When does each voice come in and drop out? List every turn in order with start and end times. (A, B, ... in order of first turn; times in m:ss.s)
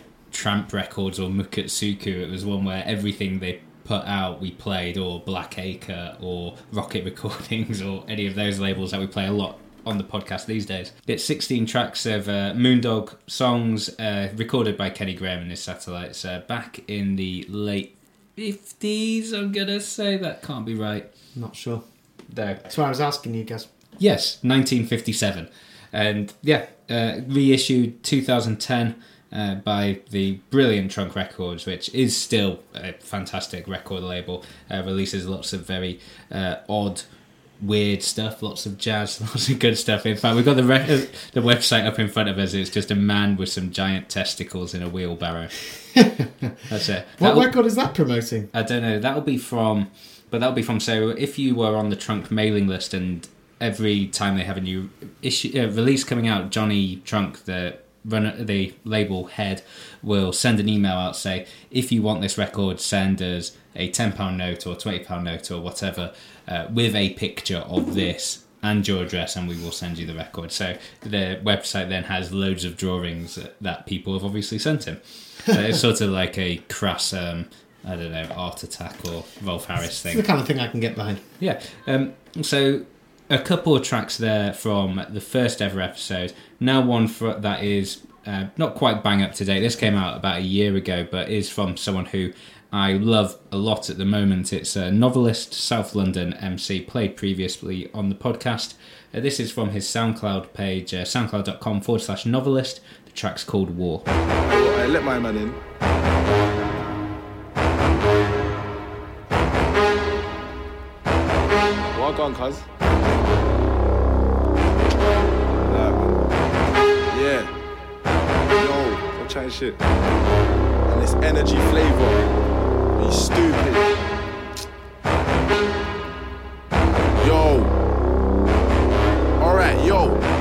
0:00.3-0:21.1 A
0:21.3-0:21.8 B
0:22.3-0:22.6 A
0:22.6-0:23.7 B
0:24.0-0:37.1 A
0:37.6-0:45.6 A
0:46.0-0:46.5 B
0:46.7-0:47.5 A
0:47.2-0:48.5 B
0:48.5-1:20.2 A
1:20.0-1:21.2 B
1:21.4-1:44.0 A
1:44.4-1:45.6 C
1:51.9-1:52.6 C
1:55.6-1:56.2 C
1:57.1-1:57.5 C
1:58.5-1:59.8 C
2:00.9-2:02.2 C
2:03.0-2:03.9 C
2:07.2-2:07.7 C
2:09.4-2:10.2 C